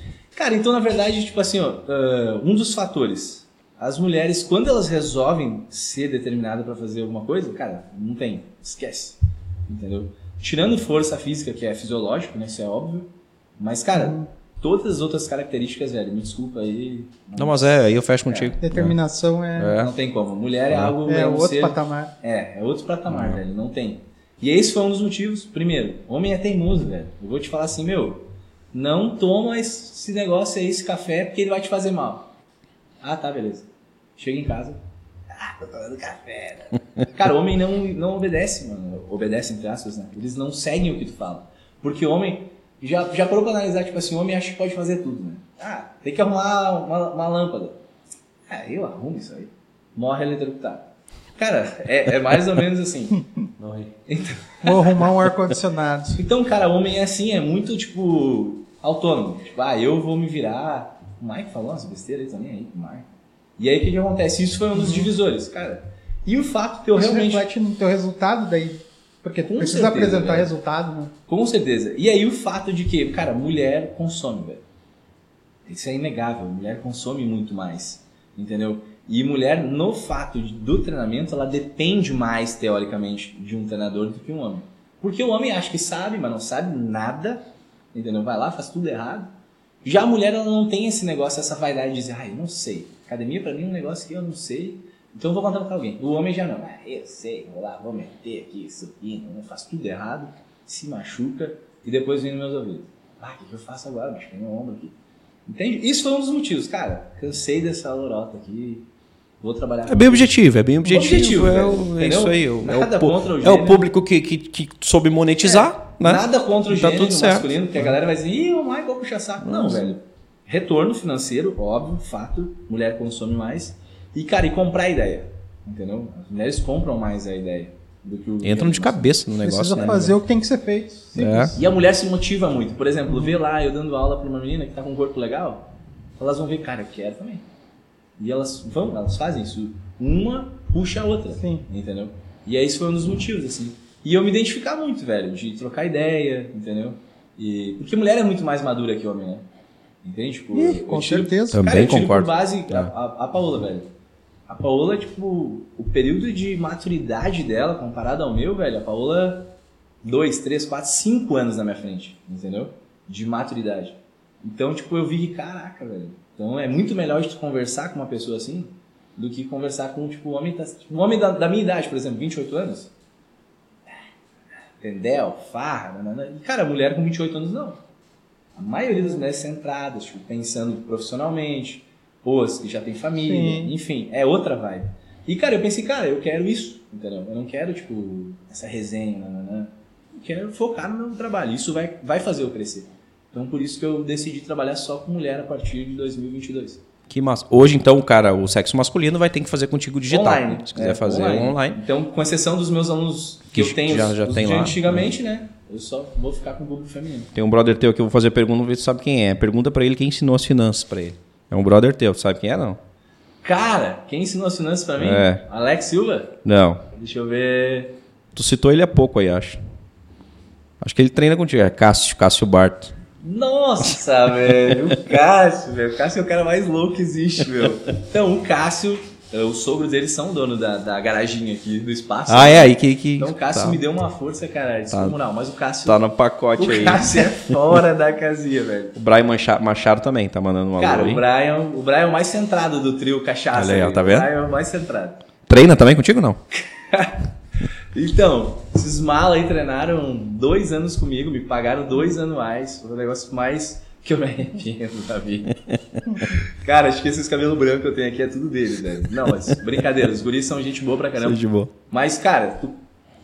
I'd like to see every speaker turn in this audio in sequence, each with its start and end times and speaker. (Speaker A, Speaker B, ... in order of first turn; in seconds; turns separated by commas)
Speaker A: 0.3-18.6, Speaker B: 13.9-14.3, Speaker C: 17.4-19.0, Speaker B: 18.6-19.8, Speaker C: 19.6-19.9, Speaker A: 19.8-32.3, Speaker B: 21.1-22.1, Speaker C: 23.1-23.4, Speaker A: 33.0-34.8, Speaker A: 35.3-47.8, Speaker A: 48.5-50.9, Speaker A: 51.4-53.2, Speaker C: 53.6-53.9, Speaker A: 54.1-54.9, Speaker B: 54.6-56.2, Speaker A: 56.2-63.1, Speaker A: 63.6-67.4, Speaker B: 64.8-65.1, Speaker B: 67.0-71.1, Speaker A: 69.5-70.5, Speaker A: 71.3-74.6, Speaker A: 75.7-89.3, Speaker A: 89.8-104.9, Speaker A: 105.5-108.8, Speaker A: 109.4-110.3, Speaker C: 109.9-117.6, Speaker A: 110.8-113.9, Speaker A: 115.4-129.1, Speaker C: 119.4-119.9, Speaker C: 128.4-130.2, Speaker B: 129.4-131.6, Speaker C: 131.2-131.6, Speaker A: 131.5-135.7, Speaker A: 136.2-137.4, Speaker A: 138.2-149.4, Speaker A: 150.0-153.9, Speaker B: 150.5-151.6, Speaker C: 151.5-152.9, Speaker A: 154.5-159.5, Speaker A: 160.0-172.9, Speaker A: 174.8-177.8, Speaker A: 178.6-196.8, Speaker B: 183.2-183.7, Speaker C: 197.1-201.8, Speaker A: 200.1-207.3, Speaker C: 203.5-205.1, Speaker C: 207.3-212.8, Speaker A: 213.4-216.4, Speaker C: 215.0-215.4, Speaker C: 216.4-216.8, Speaker A: 216.9-218.0, Speaker C: 218.3-219.6, Speaker C: 220.8-222.9, Speaker A: 223.2-236.0, Speaker C: 232.3-233.8, Speaker C: 235.8-237.6, Speaker A: 236.6-238.9, Speaker C: 238.9-241.2, Speaker A: 240.8-245.2, Speaker C: 243.5-244.3, Speaker C: 245.5-246.4, Speaker A: 246.8-247.2, Speaker A: 247.9-255.6, Speaker A: 256.1-262.8, Speaker C: 261.2-261.7